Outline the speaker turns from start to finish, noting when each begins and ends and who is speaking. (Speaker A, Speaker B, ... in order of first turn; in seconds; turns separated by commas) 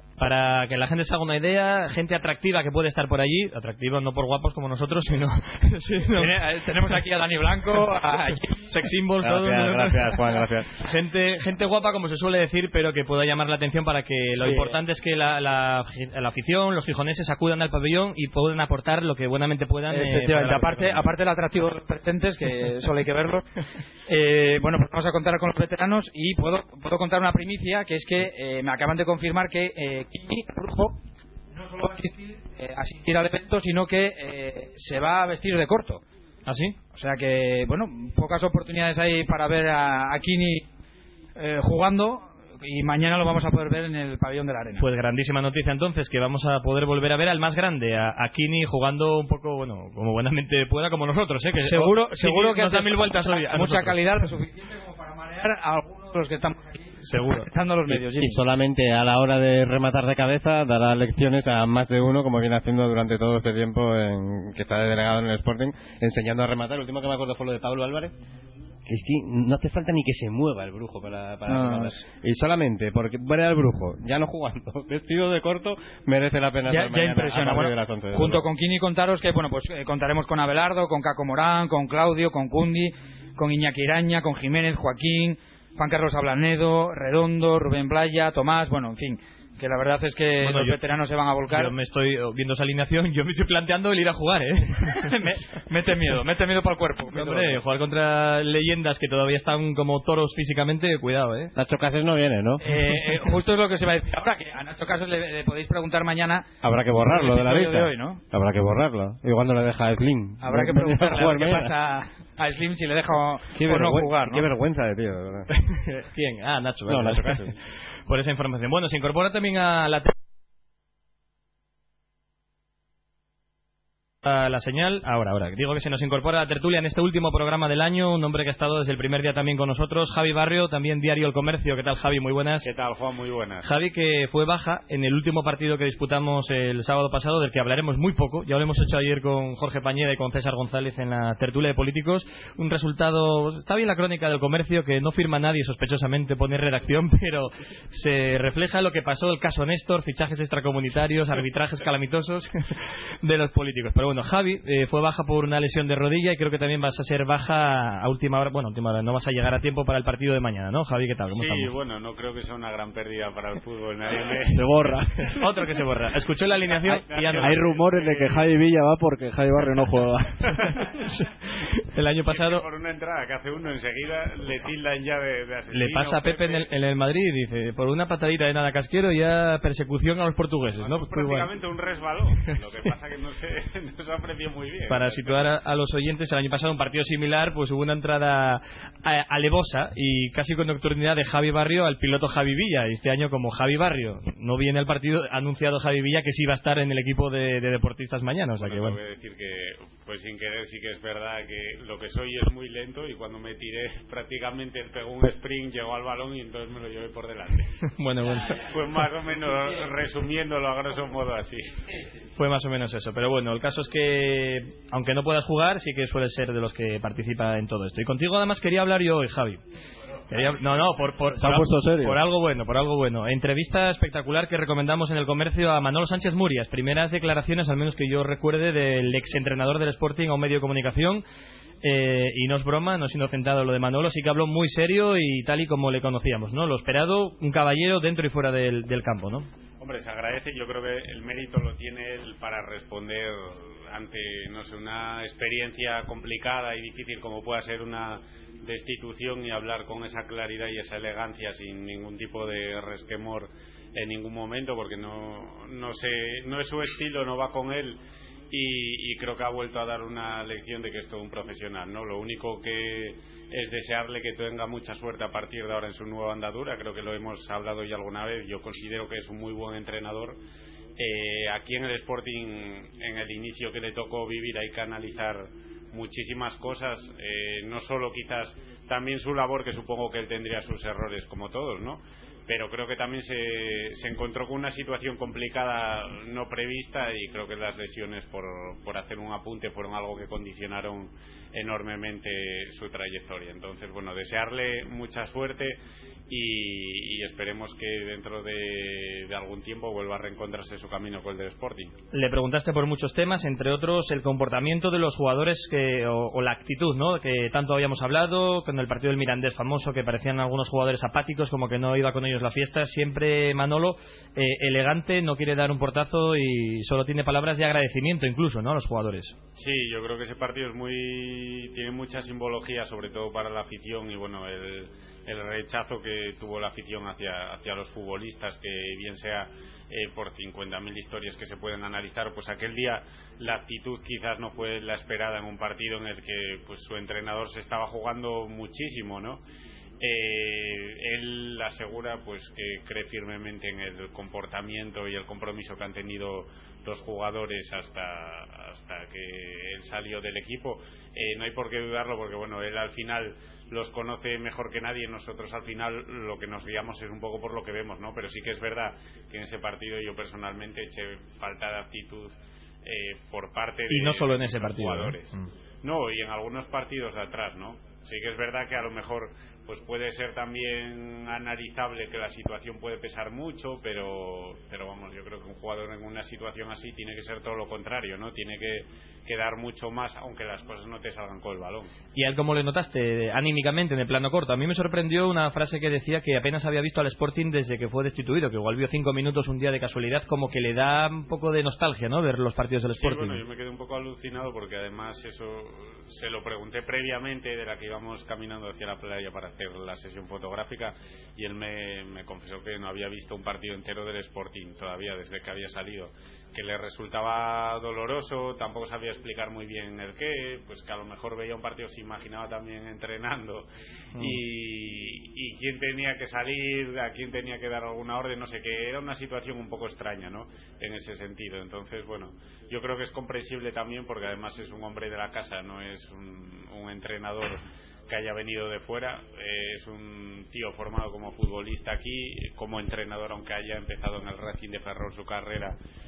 Speaker A: 0.2-6.4, Speaker B: 6.1-8.8, Speaker A: 8.7-10.2, Speaker C: 9.2-10.7, Speaker A: 10.8-21.0, Speaker B: 14.4-14.8, Speaker B: 19.9-23.4, Speaker B: 24.1-31.0, Speaker B: 31.5-36.0, Speaker A: 36.5-36.8, Speaker B: 36.9-40.7, Speaker B: 41.4-44.8, Speaker A: 44.8-54.0, Speaker B: 51.6-58.4, Speaker A: 57.0-57.5, Speaker C: 57.9-68.1, Speaker C: 68.9-78.5, Speaker B: 71.5-72.0, Speaker B: 76.7-91.7, Speaker A: 90.4-90.8, Speaker A: 91.5-95.1, Speaker B: 94.9-97.6, Speaker A: 97.1-101.5, Speaker C: 101.5-102.6, Speaker B: 102.6-108.2, Speaker C: 106.6-111.7, Speaker B: 110.4-114.5, Speaker C: 113.5-115.5, Speaker A: 115.7-120.1, Speaker C: 116.9-117.5, Speaker A: 124.2-132.7, Speaker D: 132.6-133.7, Speaker A: 133.6-161.7, Speaker D: 161.3-165.0, Speaker E: 164.5-165.3, Speaker A: 165.3-167.6, Speaker D: 166.5-168.5, Speaker E: 167.4-170.8, Speaker D: 170.5-170.9, Speaker A: 170.8-171.2, Speaker A: 171.8-172.7, Speaker D: 172.2-176.7, Speaker A: 175.7-181.5, Speaker D: 180.8-185.5, Speaker A: 184.9-199.0, Speaker D: 198.6-207.8, Speaker A: 207.9-208.7, Speaker D: 208.6-211.8, Speaker A: 212.4-219.6, Speaker A: 220.3-231.2, Speaker E: 221.4-222.2, Speaker A: 231.8-239.5, Speaker D: 239.8-270.4, Speaker D: 271.0-301.9, Speaker A: 302.1-319.4, Speaker D: 319.6-339.4, Speaker D: 340.0-362.3, Speaker D: 362.9-382.0, Speaker A: 363.9-365.5, Speaker A: 382.2-393.4, Speaker D: 392.9-435.8